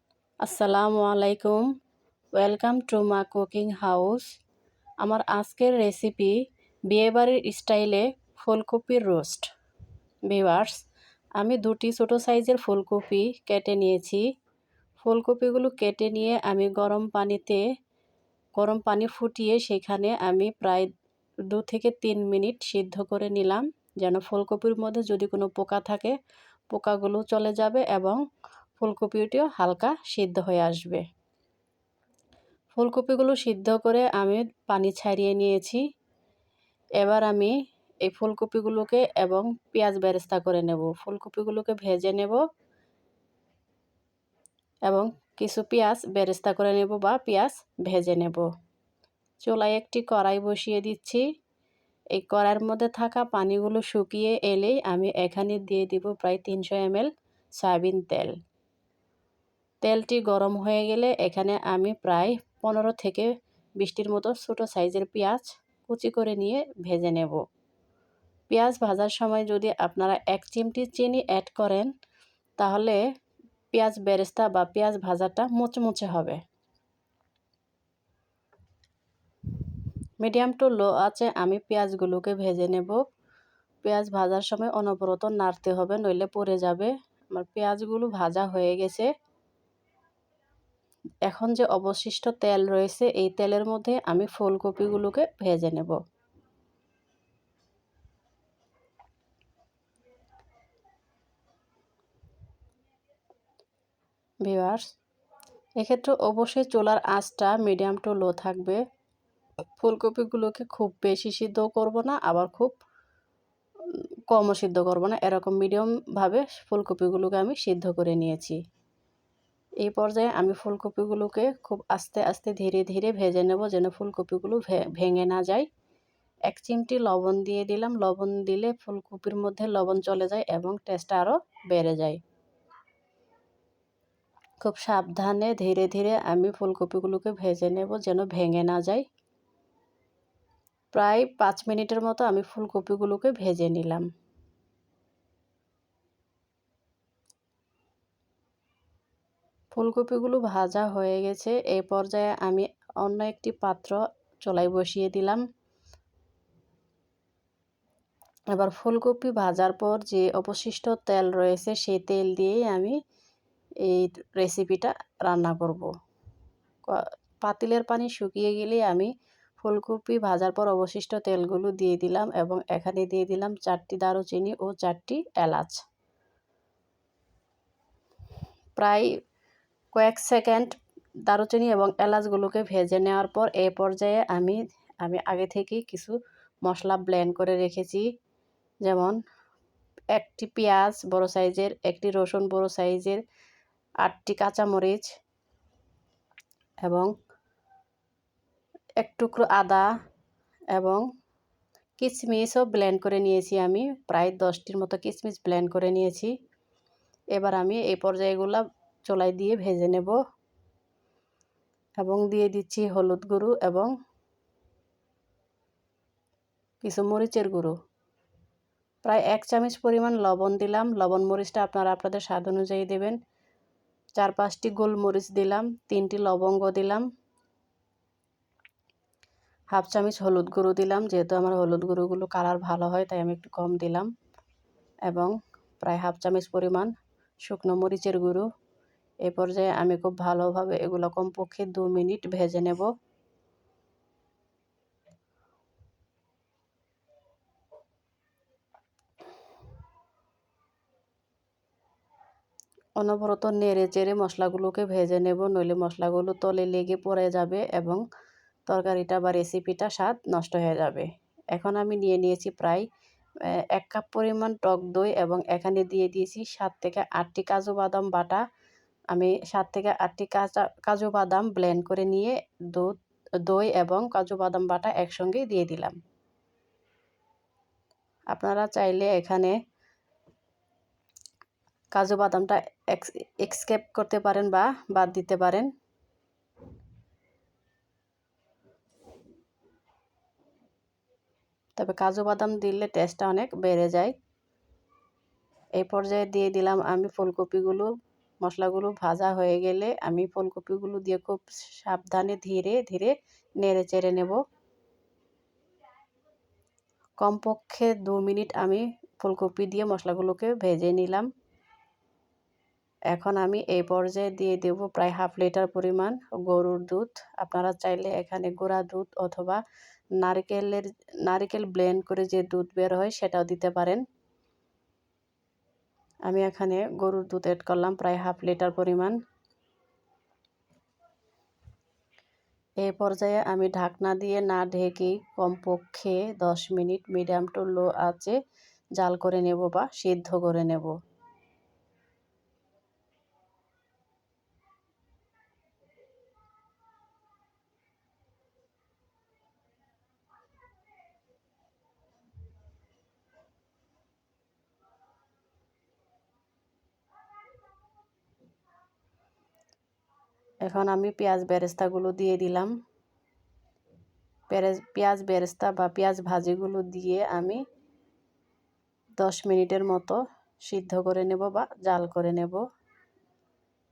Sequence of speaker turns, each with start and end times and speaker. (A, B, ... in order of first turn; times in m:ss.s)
0:00.4-0:01.7 A
0:02.3-0:04.3 A
0:05.0-0:06.4 A
0:06.9-0:09.5 A
0:10.3-0:10.8 A
0:11.4-0:14.2 A
0:15.0-0:17.6 A
0:18.6-0:20.9 A
0:21.5-0:26.2 A
0:26.7-0:28.2 A
0:28.8-0:31.0 A
0:32.7-0:35.8 A
0:37.0-0:37.5 A
0:38.0-0:42.4 A
0:44.9-0:48.5 A
0:49.4-0:51.2 A
0:52.1-0:58.4 A
0:59.8-1:07.4 A
1:08.5-1:11.9 A
1:12.6-1:13.0 A
1:13.7-1:16.4 A
1:20.2-1:23.0 A
1:23.8-1:29.1 A
1:31.3-1:36.0 A
1:44.4-1:44.8 A
1:45.8-1:48.8 A
1:49.8-1:52.7 A
1:54.3-1:58.6 A
1:59.8-2:05.7 A
2:06.5-2:12.2 A
2:14.6-2:19.0 A
2:20.9-2:24.1 A
2:29.7-2:35.4 A
2:38.5-2:43.0 A
2:43.8-2:45.9 A
2:46.9-2:55.8 A
2:58.8-2:59.1 A
2:59.9-3:00.7 A
3:01.3-3:08.1 A
3:08.8-3:09.2 A
3:10.1-3:13.2 A
3:14.0-3:15.1 A
3:16.8-3:17.1 A
3:19.0-3:19.9 A
3:20.7-3:21.0 A
3:22.0-3:26.3 A
3:27.3-3:30.2 A
3:32.0-3:33.9 A
3:36.8-3:37.8 A
3:39.0-3:43.2 A
3:44.2-3:47.0 A
3:49.7-3:54.1 A
3:55.1-3:56.9 A
3:57.5-3:58.5 A
3:59.2-4:02.9 A
4:13.0-4:18.0 A
4:18.7-4:22.8 A
4:23.4-4:28.4 A
4:29.1-4:32.9 A
4:33.4-4:36.0 A
4:38.3-4:39.5 A
4:41.9-4:45.7 A
4:51.8-4:54.1 A
4:55.8-4:57.9 A
4:58.4-5:04.4 A
5:07.2-5:11.3 A
5:13.1-5:19.6 A
5:20.2-5:24.0 A
5:26.3-5:29.2 A
5:32.8-5:38.4 A
5:39.0-5:40.9 A
6:00.6-6:02.7 A
6:04.5-6:07.6 A
6:09.2-6:12.6 A